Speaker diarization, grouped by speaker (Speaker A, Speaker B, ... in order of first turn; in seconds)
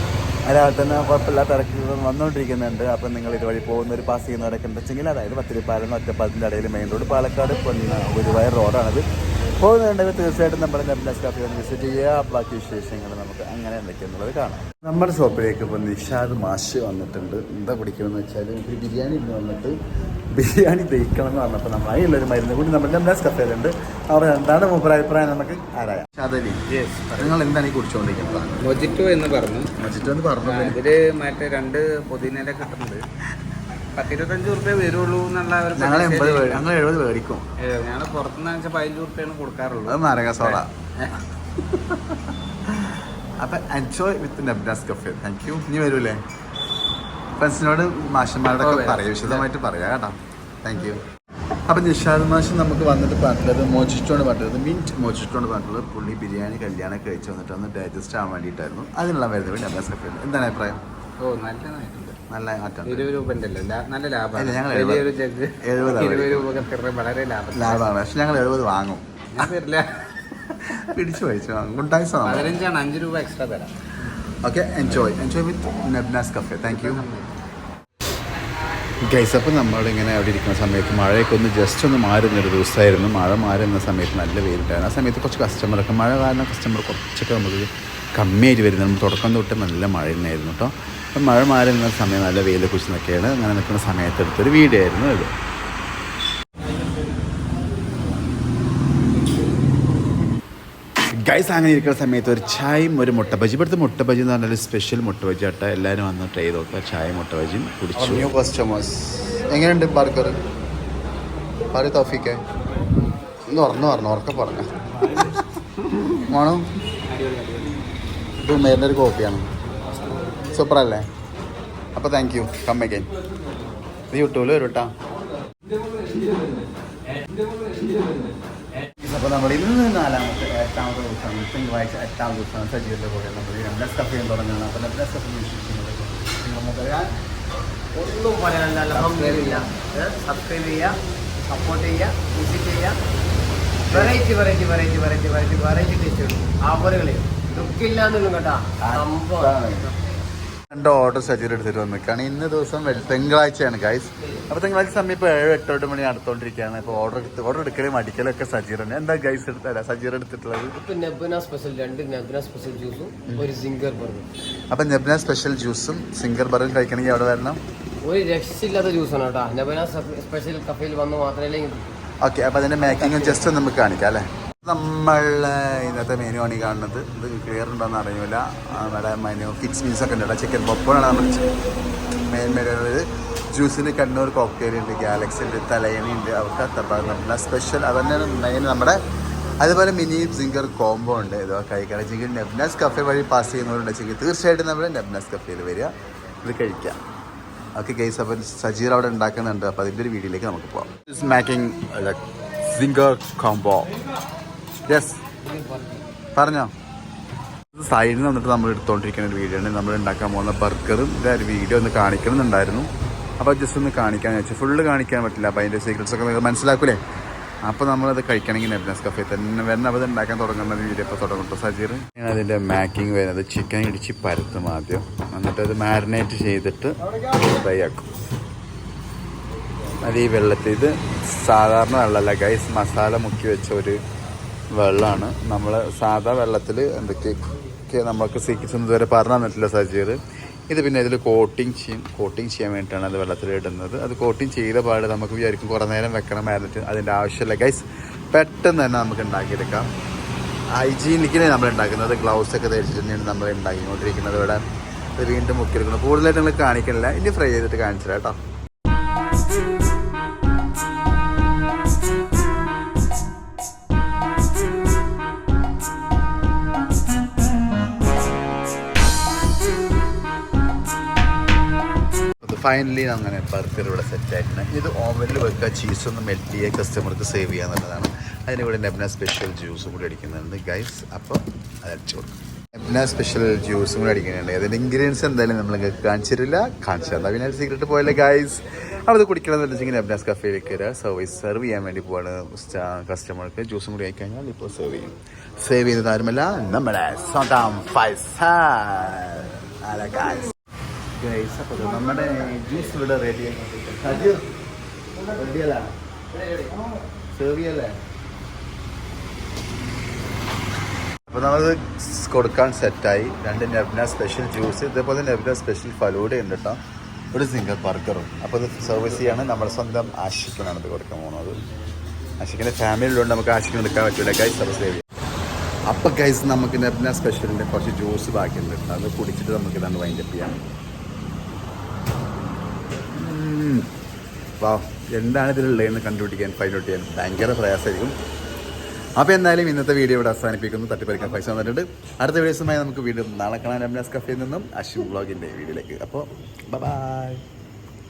Speaker A: 0.5-9.0, 9.6-19.8, 20.3-26.6, 27.2-28.6, 29.8-30.8, 35.8-37.5, 39.9-40.7, 41.6-46.2, 47.4-51.0, 51.7-60.8, 62.3-63.1, 64.3-65.1, 65.6-66.7, 67.5-69.5, 70.4-72.6, 74.4-77.1, 79.0-95.3, 101.1-110.4, 111.7-112.4, 113.5-115.5, 116.2-116.7, 118.4-119.5, 120.5-121.1, 121.9-123.1, 124.1-124.9, 129.0-137.1, 143.9-144.2, 148.8-149.9, 150.7-160.8, 164.7-167.6, 172.2-181.5, 182.3-189.0, 189.6-195.9, 196.4-197.0, 197.7-203.9, 204.8-205.2, 206.3-206.7, 207.7-217.0, 217.6-228.1, 230.0-234.0, 234.7-240.2, 240.7-249.9, 250.7-254.6, 255.2-258.4, 272.4-300.5, 301.1-304.5, 305.2-305.9, 307.3-307.9, 311.3-316.8, 317.3-321.6, 322.4-325.0, 325.9-330.6, 333.1-333.9, 334.6-338.1, 339.2-347.4
Speaker B: 26.7-27.4, 28.6-29.7, 30.4-33.0, 33.9-36.6, 37.6-41.2, 48.6-49.5, 61.2-62.2, 62.9-67.9, 69.3-70.1, 72.2-74.2, 76.7-77.3, 107.9-108.2, 117.1-117.8, 138.9-139.7
Speaker C: 137.9-140.9, 141.5-143.0, 143.9-149.9, 160.8-164.3, 168.0-172.0, 172.8-173.5, 205.4-206.1